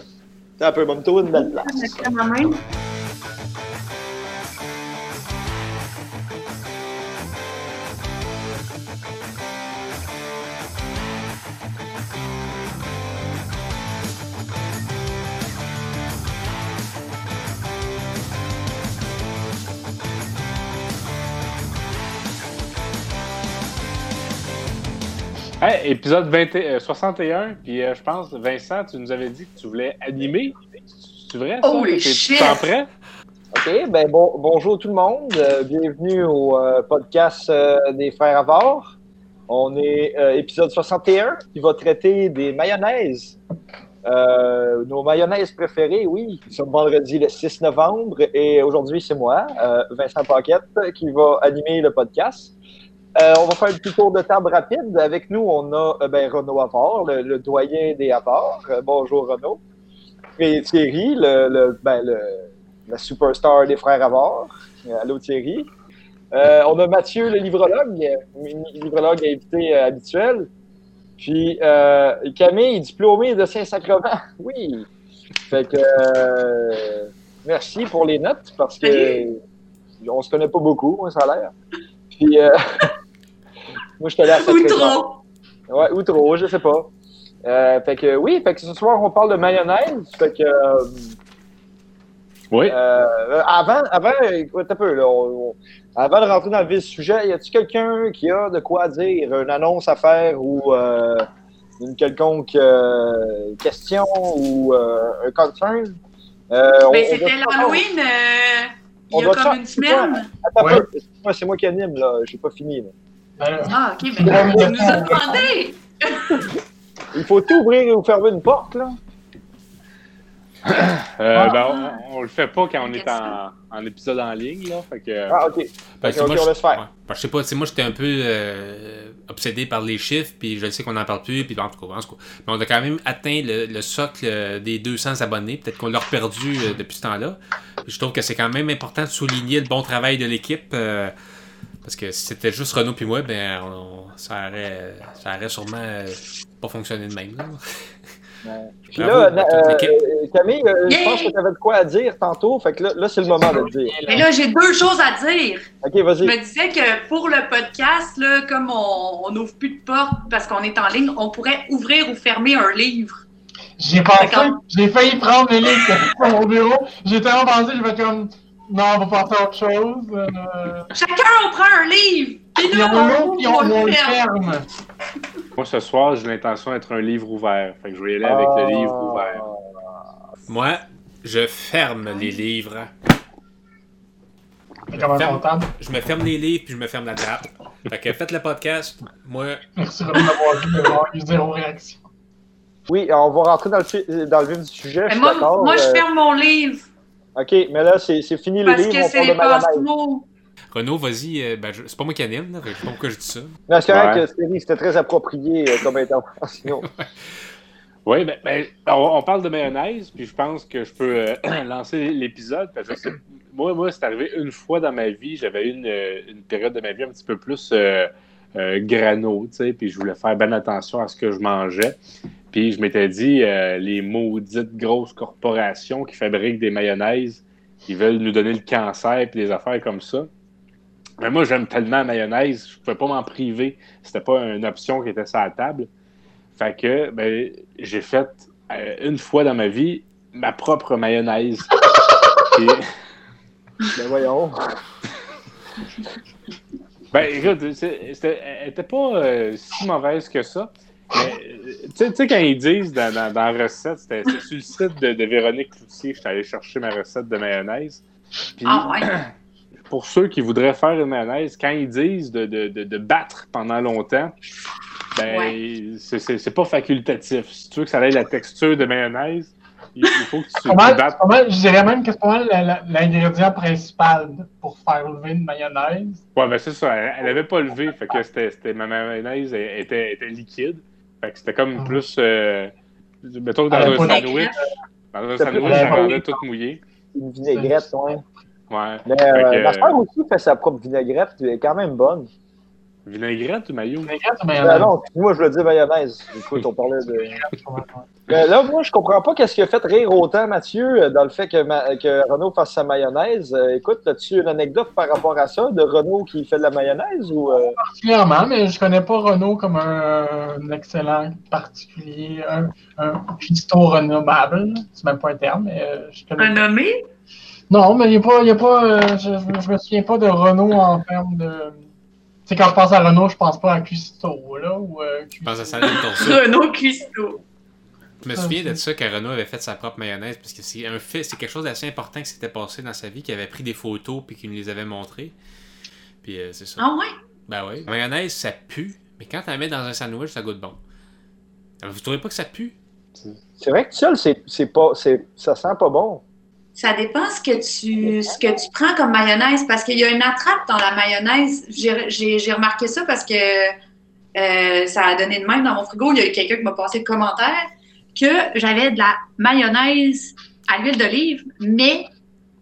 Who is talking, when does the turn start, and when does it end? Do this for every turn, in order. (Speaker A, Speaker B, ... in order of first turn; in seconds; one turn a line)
Speaker A: 0.6-2.0
Speaker B: 1.3-2.6
Speaker C: 25.6-32.9
Speaker B: 31.6-32.6
Speaker A: 33.5-39.0
Speaker A: 39.5-43.4
Speaker A: 44.0-52.5
Speaker A: 53.2-59.6
Speaker A: 60.4-65.7
Speaker A: 66.3-70.5
Speaker A: 71.2-74.9
Speaker A: 75.5-79.4
Speaker B: 78.8-79.2
Speaker A: 80.0-81.5
Speaker A: 82.1-82.9
Speaker A: 84.0-85.0
Speaker B: 84.3-85.2
Speaker A: 85.7-86.9
Speaker A: 87.4-91.1
Speaker A: 92.7-101.2
Speaker A: 101.8-106.0
Speaker A: 106.5-107.8
Speaker B: 106.9-110.3
Speaker A: 109.1-112.9
Speaker D: 110.6-110.8
Speaker D: 113.4-115.5
Speaker B: 113.7-116.4
Speaker A: 114.2-115.0
Speaker A: 117.1-119.0
Speaker C: 120.6-125.4
Speaker B: 121.4-122.0
Speaker B: 122.8-123.3
Speaker A: 125.3-126.8
Speaker E: 126.0-141.1
Speaker E: 141.8-147.6
Speaker A: 148.4-153.9
Speaker E: 148.9-149.9
Speaker B: 150.9-151.3
Speaker D: 153.3-154.3
Speaker B: 154.1-155.7
Speaker A: 155.8-156.3
Speaker B: 156.2-163.1
Speaker D: 163.8-170.9
Speaker B: 164.2-164.6
Speaker B: 170.9-174.2
Speaker D: 172.6-174.7
Speaker C: 175.6-179.4
Speaker A: 178.2-179.6
Speaker E: 180.5-182.9
Speaker D: 184.9-185.7
Speaker E: 184.9-189.6
Speaker D: 189.8-192.0
Speaker B: 190.1-190.9
Speaker A: 192.9-196.0
Speaker B: 195.1-196.9
Speaker A: 197.3-199.8
Speaker B: 198.6-200.2
Speaker E: 200.7-203.5
Speaker A: 203.7-206.8
Speaker C: 203.9-204.2
Speaker E: 206.8-207.1
Speaker C: 208.0-222.0
Speaker C: 222.5-230.3
Speaker C: 231.2-235.9
Speaker C: 236.6-241.8
Speaker C: 242.5-242.8
Speaker A: 243.9-244.5
Speaker C: 247.1-258.0
Speaker C: 258.6-259.3
Speaker B: 258.6-259.1
Speaker C: 259.9-264.3
Speaker C: 265.1-271.2
Speaker B: 265.3-265.6
Speaker D: 270.6-276.2
Speaker C: 276.3-282.7
Speaker D: 281.7-282.1
Speaker C: 283.2-284.5
Speaker A: 283.7-284.1
Speaker D: 283.7-284.6
Speaker B: 283.8-284.6
Speaker C: 285.1-286.8
Speaker A: 285.4-286.2
Speaker D: 285.6-286.4
Speaker A: 287.1-288.2
Speaker D: 287.5-287.9
Speaker C: 288.7-289.9
Speaker A: 289.1-292.3
Speaker C: 293.1-294.1
Speaker D: 294.0-294.9
Speaker A: 294.6-297.4
Speaker D: 297.0-298.1
Speaker A: 298.3-307.8
Speaker D: 307.6-316.6
Speaker B: 316.4-316.9
Speaker D: 317.7-321.8
Speaker D: 322.4-326.1
Speaker E: 325.4-326.4
Speaker B: 325.9-327.4
Speaker E: 328.2-335.3
Speaker D: 328.3-328.8
Speaker E: 336.2-336.9
Speaker B: 336.8-337.1
Speaker E: 337.5-340.8
Speaker E: 341.8-342.8
Speaker A: 343.6-346.2
Speaker B: 346.8-353.7
Speaker A: 348.0-348.4
Speaker B: 354.4-357.6
Speaker B: 358.1-362.1